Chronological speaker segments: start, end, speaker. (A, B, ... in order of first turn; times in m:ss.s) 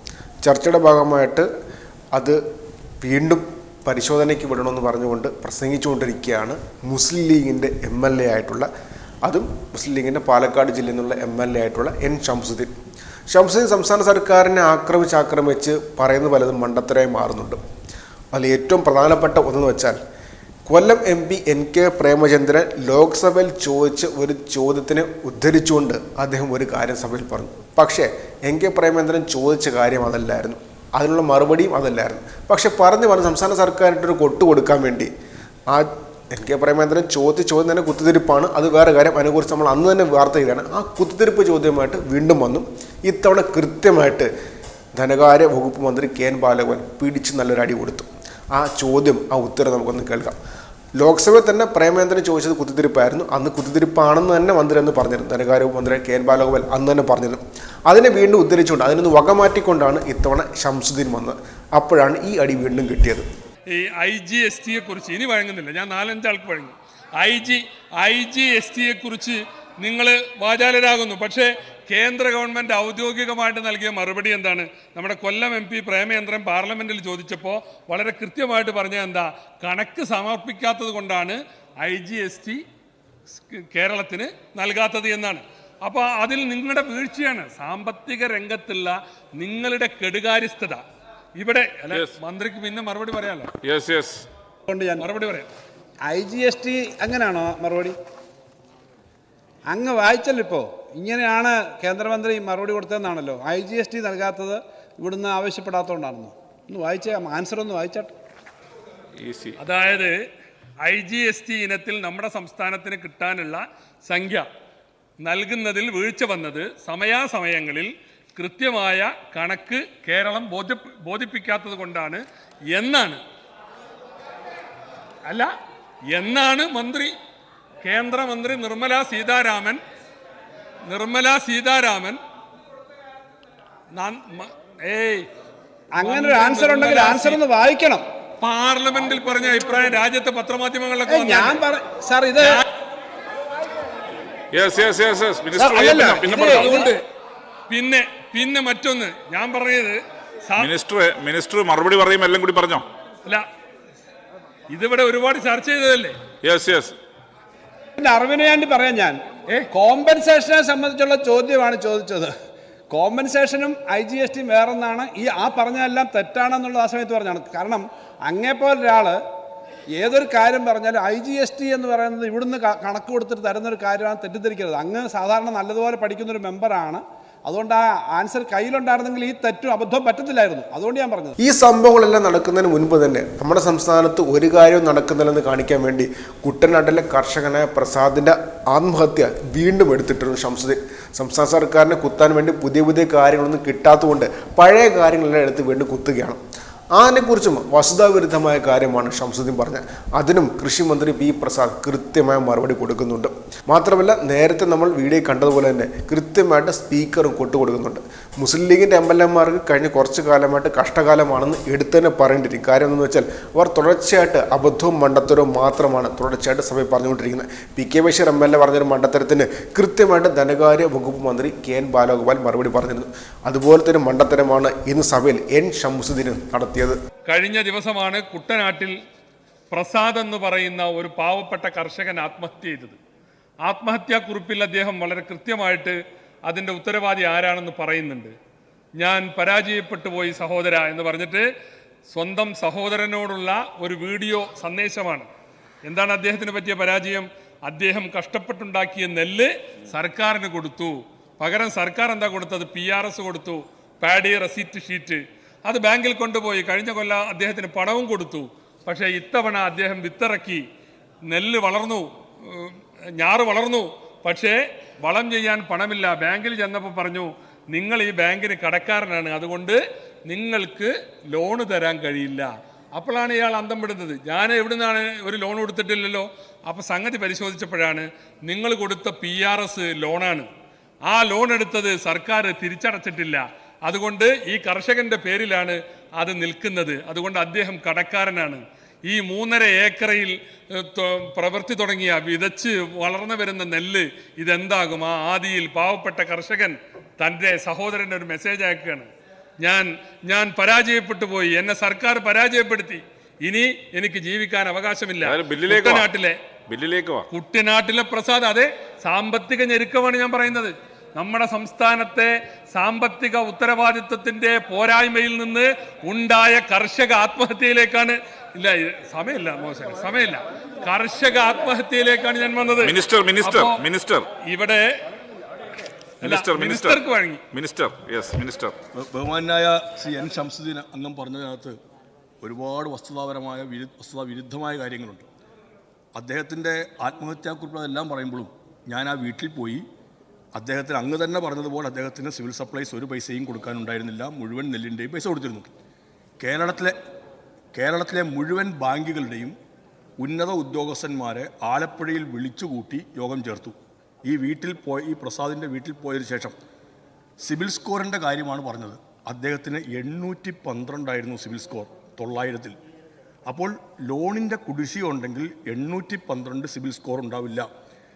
0:00.4-0:01.5 A
0:02.1-0:02.4 A
0:03.0-0:08.7 A
0:09.2-0:12.7 A
0:13.3-0:17.6 A
0:18.3-0:20.0 A
0:20.7-0:35.1 A
0:35.7-0:44.3 A
0:45.0-0:50.4 A
0:51.0-1:03.3 A
1:03.7-1:22.6 B
1:23.3-1:30.8 B
1:31.4-1:33.5 B
1:33.6-1:34.2 C
1:34.7-1:35.1 D
1:35.0-1:35.5 B
1:36.0-1:38.0 D
1:39.7-1:48.2 D
1:49.2-1:49.6 C
1:49.6-1:50.1 B
1:50.8-1:54.5 B
1:55.2-2:03.2 B
2:05.2-2:05.5 B
2:06.1-2:07.1 B
2:07.8-2:09.8 B
2:10.9-2:12.2 B
2:13.9-2:15.3 B
2:16.0-2:18.0 D
2:16.0-2:17.4 B
2:18.4-2:21.6 B
2:21.1-2:22.6 D
2:24.5-2:26.9 C
2:25.6-2:26.9 D
2:26.4-2:27.0 B
2:27.7-2:30.7 B
2:30.6-2:32.8 C
2:34.7-2:36.2 B
2:36.4-2:36.9 C
2:38.0-2:39.2 D
2:39.7-2:42.3 D
2:42.9-2:49.2 D
2:49.9-3:01.4 D
3:01.4-3:16.4 A
3:16.9-3:47.0 A
3:47.3-3:49.0 B
3:49.7-3:53.0 B
3:53.6-3:58.3 B
3:59.0-4:01.5 B
4:02.1-4:05.3 B
4:05.8-4:20.6 B
4:21.3-4:40.5 B
4:41.1-4:59.1 B
4:59.6-5:06.4 B
5:05.2-5:06.1 C
5:06.7-5:07.2 C
5:07.3-5:23.8 B
5:22.8-5:24.2 C
5:24.4-5:25.0 B
5:26.2-5:27.4 B
5:26.2-5:28.8 C
5:28.9-5:31.8 E
5:32.4-5:35.3 E
5:36.1-5:39.8 E
5:40.6-5:45.7 E
5:46.4-5:46.9 E
5:47.7-5:49.6 E
5:50.2-5:56.6 E
5:57.4-6:02.8 E
6:03.4-6:07.7 E